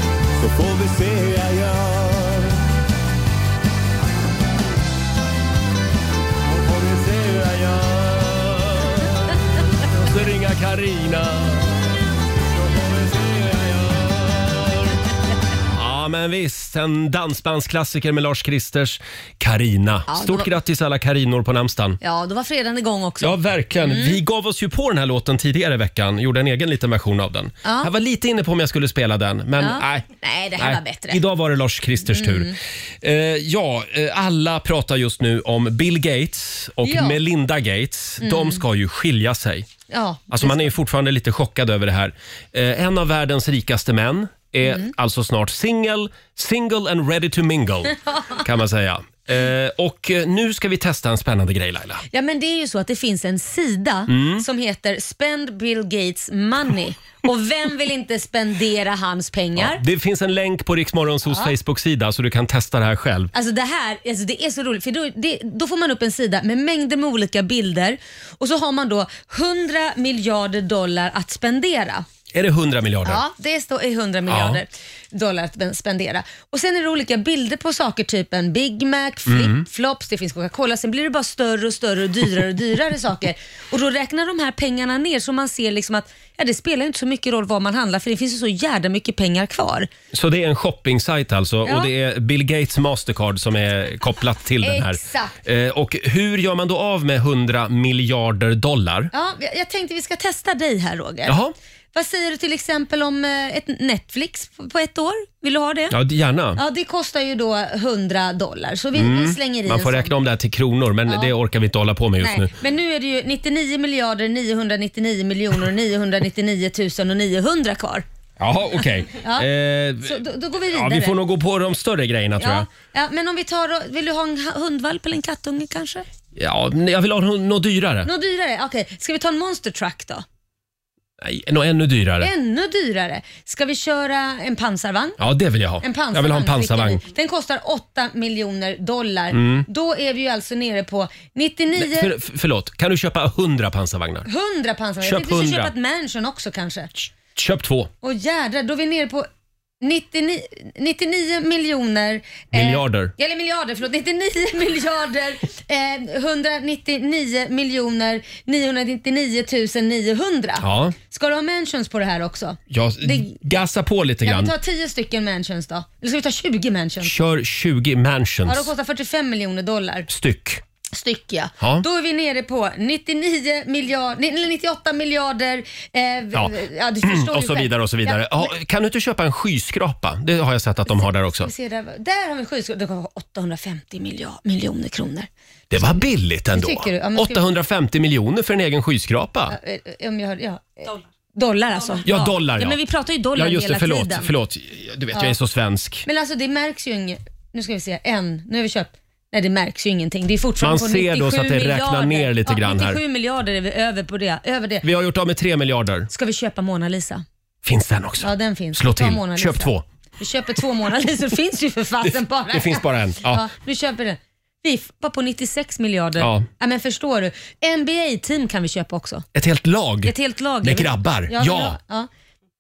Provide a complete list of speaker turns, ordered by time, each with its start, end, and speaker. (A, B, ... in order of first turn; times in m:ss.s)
0:00.3-0:02.6 A
0:06.5-0:09.1 B
0:09.9-0:11.8 B
0:12.6-0:14.7 B
0:15.7-0:22.0 B
0:20.1-0:20.5 C
0:22.0-0:24.2 C
0:23.2-0:39.7 B
0:27.6-0:27.9 C
0:29.6-0:31.2 C
0:32.1-0:32.5 C
0:36.8-0:37.2 C
0:38.2-0:38.6 C
0:39.9-0:40.7 C
0:40.3-0:52.0 B
0:44.6-0:44.9 C
0:48.1-0:48.4 C
0:52.1-0:59.8 C
0:54.1-0:54.4 B
0:59.6-1:03.3 B
1:03.3-1:12.1 C
1:12.3-1:13.2 B
1:13.0-1:29.9 C
1:14.3-1:14.6 B
1:19.3-1:19.6 B
1:30.1-1:39.1 B
1:34.6-1:35.4 C
1:39.1-1:41.4 C
1:41.3-1:41.5 B
1:41.9-1:46.0 C
1:45.9-1:46.6 B
1:46.6-1:50.1 C
1:48.9-1:52.5 B
1:52.2-1:58.0 C
1:58.4-2:00.2 B
1:59.2-1:59.5 C
2:00.0-2:01.2 C
2:00.7-2:02.7 B
2:02.4-2:06.0 C
2:06.4-2:08.1 B
2:08.0-2:10.2 C
2:11.2-2:12.3 B
2:12.2-2:15.2 C
2:15.2-2:17.0 B
2:15.8-2:22.1 C
2:19.3-2:19.6 B
2:21.8-2:24.3 B
2:24.2-2:26.9 C
2:25.0-2:25.7 B
2:27.4-2:27.9 B
2:28.0-2:29.3 C
2:29.8-2:43.4 C
2:32.5-2:33.1 B
2:40.6-2:40.9 B
2:42.7-2:44.5 B
2:44.2-2:47.1 C
2:47.0-2:48.7 B
2:48.4-2:50.1 C
2:50.1-2:50.6 B
2:50.9-2:58.5 C
2:56.4-3:01.5 B
3:00.9-3:05.3 C
3:05.7-3:09.6 B
3:06.5-3:07.4 C
3:09.5-3:14.3 C
3:12.0-3:12.8 B
3:13.3-3:16.0 B
3:16.0-3:24.8 C
3:20.6-3:23.0 B
3:24.8-3:26.1 B
3:26.1-3:27.2 C
3:27.6-3:29.8 B
3:28.2-3:39.2 C
3:32.1-3:33.4 B
3:36.2-3:36.4 B
3:39.3-3:41.8 B
3:40.0-3:42.1 C